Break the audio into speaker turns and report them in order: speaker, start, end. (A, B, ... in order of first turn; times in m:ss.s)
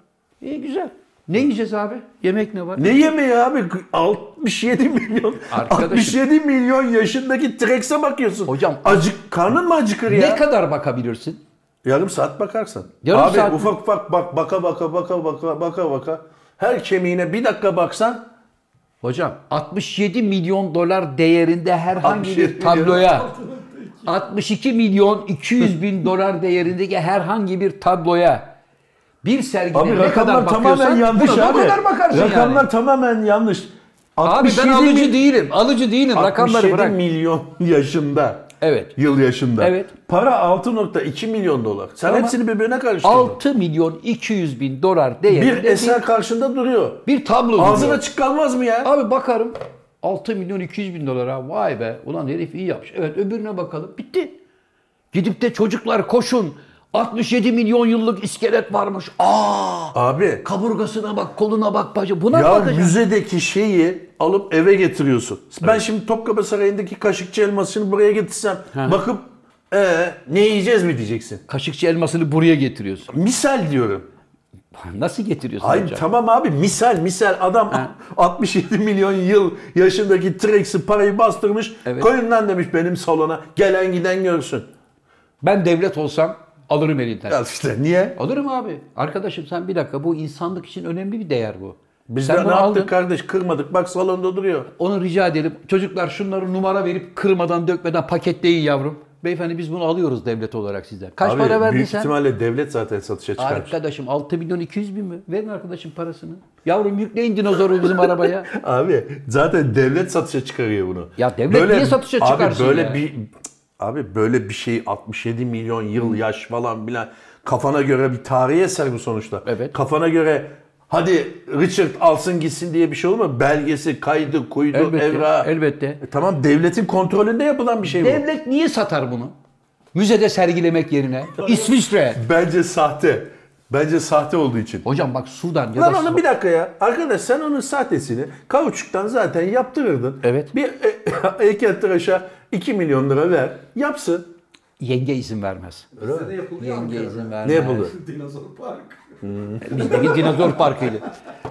0:00.4-0:03.1 A
0:02.8-0:10.4 B
0:05.5-0:06.2 A
0:08.5-0:09.1 A
0:10.1-0:11.4 A
0:11.8-0:18.2 B
0:13.0-0:13.7 A
0:19.0-0:23.3 A
0:22.0-0:23.0 B
0:22.7-0:24.1 C
0:24.0-0:28.5 A
0:29.2-0:32.7 A
0:29.7-0:35.2 B
0:34.2-0:37.0 A
0:36.1-0:43.4 B
0:38.6-0:38.9 A
0:39.6-0:39.9 A
0:42.0-0:42.4 A
0:43.0-0:46.0 A
0:45.3-0:48.9 B
0:47.0-0:48.0 A
0:48.8-0:54.4 A
0:55.1-1:02.9 A
0:59.9-1:00.4 B
1:02.3-1:11.4 B
1:08.7-1:09.0 A
1:11.5-1:13.1 A
1:13.1-1:14.1 B
1:14.7-1:16.0 A
1:15.6-1:24.7 B
1:21.8-1:22.1 A
1:25.4-1:27.4 A
1:27.3-1:28.2 B
1:28.2-1:32.9 A
1:32.1-1:34.7 B
1:34.8-1:42.1 A
1:41.2-1:43.7 B
1:43.4-1:48.5 A
1:47.8-2:08.2 B
1:51.2-1:53.0 A
1:59.4-1:59.7 A
2:04.7-2:06.0 A
2:07.8-2:09.3 A
2:09.9-2:12.2 A
2:12.1-2:14.8 B
2:14.8-2:16.2 A
2:15.8-2:24.3 B
2:20.2-2:20.5 A
2:24.8-2:25.9 A
2:26.0-2:29.2 C
2:26.0-2:26.3 B
2:26.6-2:27.9 A
2:27.4-2:27.9 B
2:29.2-2:30.3 B
2:29.6-2:31.1 A
2:29.8-2:30.8 C